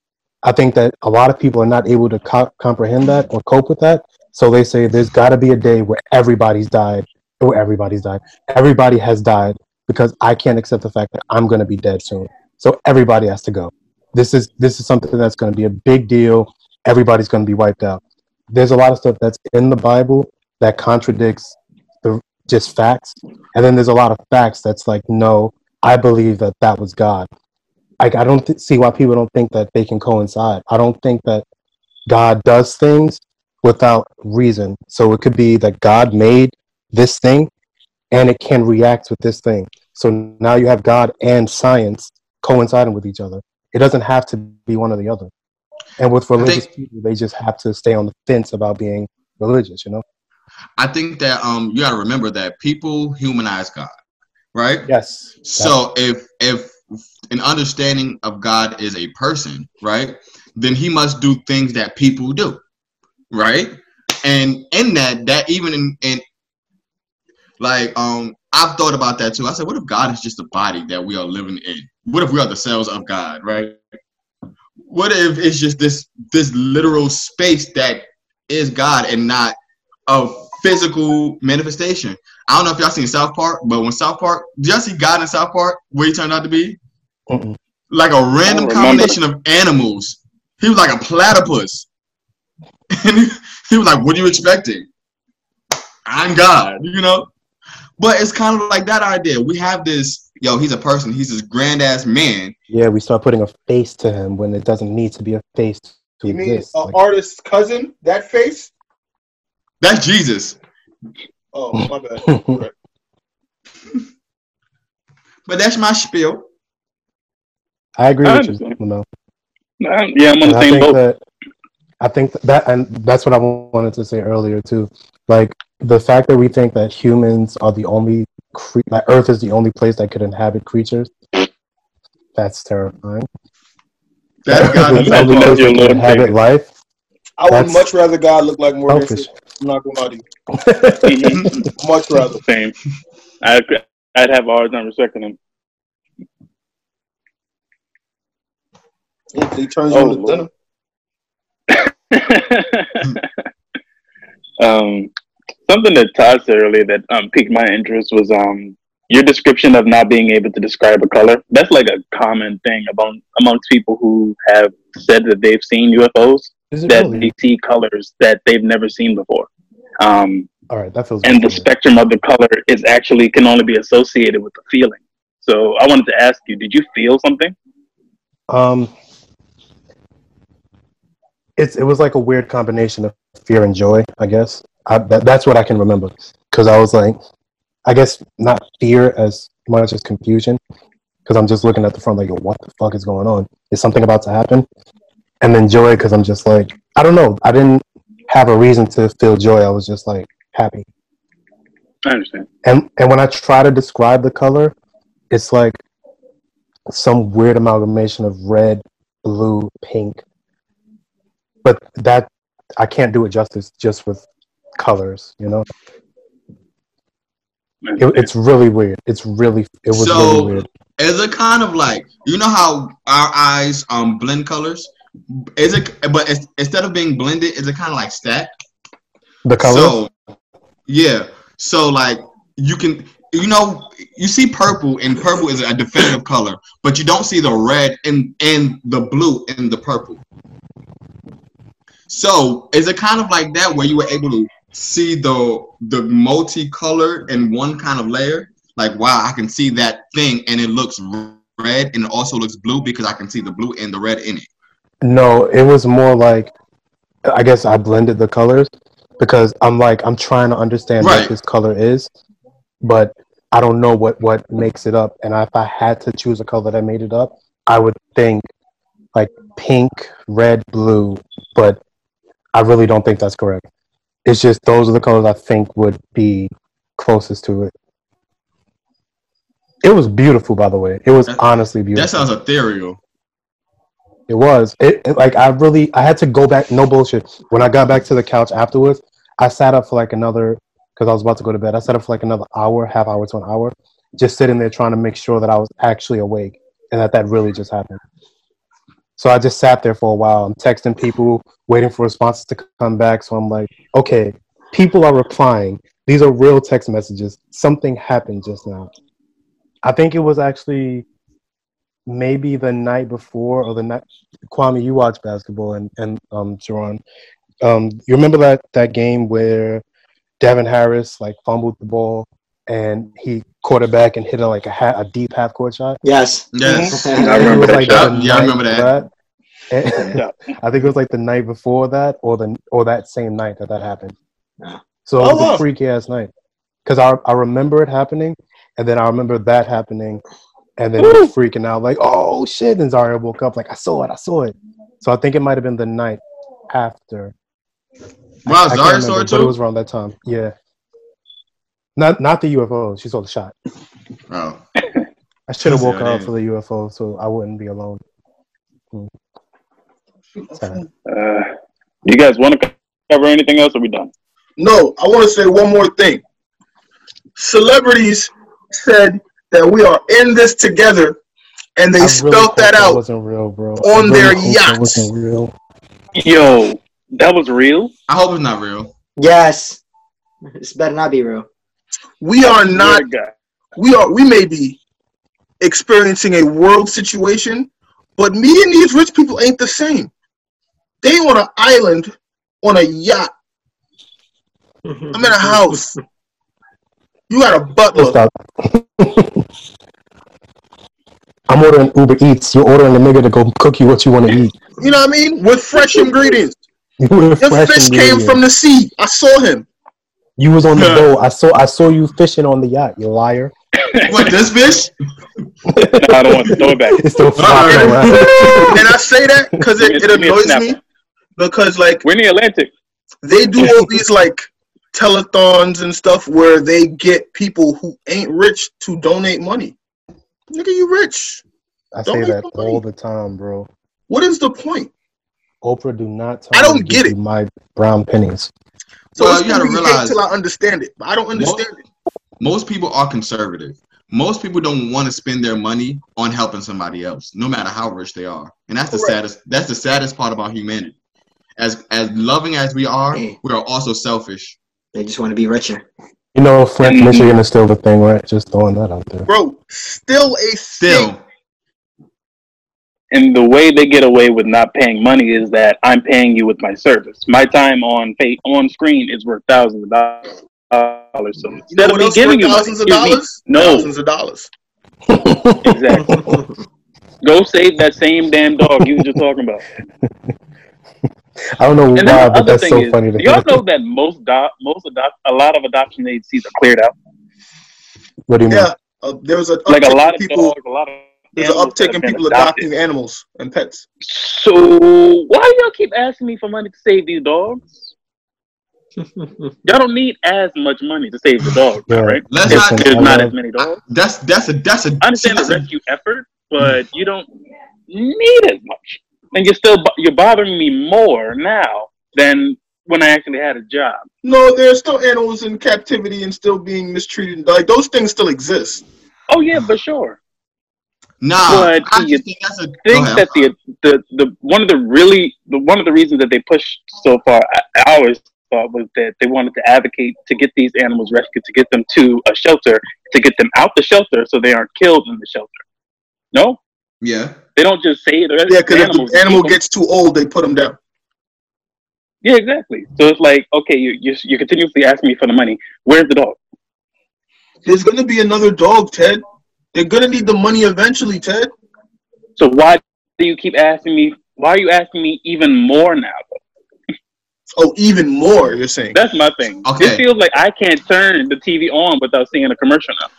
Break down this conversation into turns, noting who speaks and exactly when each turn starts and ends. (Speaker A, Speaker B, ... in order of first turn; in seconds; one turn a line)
Speaker A: 0.4-27.3
Speaker A: 28.0-31.4
Speaker A: 32.1-37.5
Speaker A: 38.1-45.3
Speaker A: 46.0-50.0
Speaker B: 46.4-46.7
Speaker B: 50.8-53.9
Speaker B: 54.5-54.9
Speaker A: 54.9-55.8
Speaker B: 55.4-62.6
Speaker B: 63.3-66.2
Speaker B: 67.6-73.8
Speaker B: 74.9-79.6
Speaker B: 80.1-86.8
Speaker A: 87.3-87.6
Speaker B: 87.9-91.9
Speaker C: 88.4-89.2
Speaker B: 92.9-94.9
Speaker B: 96.1-97.3
Speaker B: 98.0-102.5
Speaker A: 102.7-107.0
Speaker D: 106.3-108.7
Speaker B: 109.8-110.6
Speaker D: 111.5-112.7
Speaker A: 112.3-112.6
Speaker B: 115.5-116.5
Speaker A: 118.0-119.1
Speaker C: 118.2-118.8
Speaker C: 119.8-121.0
Speaker A: 120.4-121.2
Speaker A: 122.0-131.1
Speaker A: 132.4-133.3
Speaker B: 134.4-135.8
Speaker A: 134.5-136.7
Speaker C: 134.9-136.3
Speaker D: 137.4-140.2
Speaker A: 137.5-137.8
Speaker A: 138.9-139.3
Speaker A: 140.5-141.6
Speaker C: 141.0-141.5
Speaker D: 141.8-142.4
Speaker C: 142.4-142.8
Speaker C: 143.4-145.4
Speaker D: 149.3-150.5
Speaker C: 149.9-150.5
Speaker C: 151.7-153.3
Speaker C: 154.6-155.1
Speaker C: 155.7-169.5
Speaker A: 166.7-167.3
Speaker C: 170.0-170.5
Speaker A: 170.7-171.7
Speaker C: 171.2-177.6
Speaker A: 178.5-178.9
Speaker A: 181.6-187.2
Speaker A: 187.9-190.6
Speaker A: 191.3-194.7
Speaker A: 195.4-200.9
Speaker C: 202.1-202.5
Speaker A: 202.6-204.8
Speaker A: 205.3-205.8
Speaker A: 206.9-210.2
Speaker A: 211.6-214.3
Speaker A: 214.8-215.7
Speaker C: 217.8-218.3
Speaker A: 218.0-220.7
Speaker B: 219.9-228.5
Speaker A: 229.4-230.0
Speaker B: 229.6-230.1
Speaker B: 230.9-240.2
Speaker B: 242.1-254.5
Speaker A: 255.0-256.5
Speaker A: 257.3-262.1
Speaker B: 261.0-261.3
Speaker A: 262.8-268.5
Speaker A: 269.1-271.8
Speaker A: 272.6-273.7
Speaker A: 274.2-277.7
Speaker A: 279.8-282.2
Speaker B: 281.3-283.0
Speaker A: 284.3-298.0
Speaker A: 299.2-308.9
Speaker A: 309.8-311.1
Speaker A: 312.1-317.0
Speaker A: 317.6-319.8
Speaker A: 320.4-326.0
Speaker E: 326.0-327.6
Speaker B: 326.5-328.9
Speaker D: 326.6-327.0
Speaker C: 327.1-328.1
Speaker A: 327.3-329.1
Speaker A: 329.7-334.1
Speaker C: 329.9-330.4
Speaker A: 335.1-336.3
Speaker D: 335.2-335.6
Speaker A: 336.9-340.2
Speaker A: 340.8-347.3
Speaker C: 341.0-341.3
Speaker B: 348.5-349.5
Speaker A: 348.5-350.5
Speaker A: 352.0-353.5
Speaker B: 354.3-354.6
Speaker A: 355.5-358.0
Speaker B: 355.7-356.3
Speaker D: 360.5-360.9
Speaker A: 360.5-360.8
Speaker C: 361.1-361.5
Speaker C: 362.1-364.1
Speaker D: 364.6-366.2
Speaker D: 367.4-371.2
Speaker D: 371.8-373.0
Speaker A: 372.0-375.5
Speaker D: 373.8-375.1
Speaker C: 376.2-377.9
Speaker B: 378.1-378.9
Speaker E: 379.2-379.8
Speaker E: 380.6-381.5
Speaker D: 382.2-383.1
Speaker C: 382.4-383.3
Speaker D: 383.8-384.8
Speaker D: 385.6-390.1
Speaker D: 391.0-393.3
Speaker E: 394.9-395.1
Speaker D: 395.1-396.0
Speaker D: 397.3-398.2
Speaker A: 397.9-399.5
Speaker A: 401.5-404.6
Speaker D: 404.8-406.6
Speaker A: 407.0-408.4
Speaker D: 407.4-409.7
Speaker A: 410.4-413.5
Speaker B: 410.7-411.1
Speaker B: 414.0-414.9
Speaker A: 415.7-418.8
Speaker C: 415.9-417.1
Speaker B: 417.4-418.8
Speaker D: 417.7-418.0
Speaker C: 418.2-418.6
Speaker D: 418.5-420.8
Speaker C: 419.8-420.8
Speaker D: 421.4-422.0
Speaker C: 422.0-422.7
Speaker D: 423.2-429.8
Speaker D: 430.5-431.4
Speaker A: 431.9-433.7
Speaker D: 432.1-432.8
Speaker D: 434.1-434.9
Speaker A: 435.6-438.5
Speaker D: 436.5-437.1
Speaker B: 439.2-440.2
Speaker D: 439.2-441.8
Speaker B: 441.4-441.6
Speaker B: 442.4-450.9
Speaker D: 448.9-449.2
Speaker B: 451.6-454.6
Speaker E: 454.9-455.9
Speaker A: 456.4-459.3
Speaker C: 456.8-457.3
Speaker D: 459.3-461.1
Speaker B: 460.8-461.2
Speaker C: 463.1-473.9
Speaker D: 471.7-474.5
Speaker A: 475.1-476.4
Speaker C: 475.6-476.3
Speaker E: 476.2-476.4
Speaker C: 477.2-479.6
Speaker A: 478.7-479.1
Speaker A: 481.6-483.6
Speaker C: 481.9-486.9
Speaker A: 488.3-488.7
Speaker D: 488.5-490.6
Speaker C: 489.7-492.7
Speaker D: 491.4-493.9
Speaker C: 494.0-497.9
Speaker C: 499.6-503.8
Speaker A: 501.9-503.3
Speaker B: 502.3-505.7
Speaker C: 505.0-507.3
Speaker C: 507.9-514.0
Speaker D: 514.2-518.8
Speaker C: 519.3-520.2
Speaker B: 521.2-523.5
Speaker C: 521.5-522.2
Speaker C: 522.9-535.6
Speaker C: 536.3-536.6
Speaker B: 537.0-537.4
Speaker C: 537.6-539.6
Speaker D: 538.5-540.8
Speaker C: 542.2-546.4
Speaker D: 547.6-549.2
Speaker D: 549.7-551.5
Speaker C: 552.4-556.4
Speaker D: 557.6-559.0
Speaker C: 558.9-563.1
Speaker B: 559.6-560.0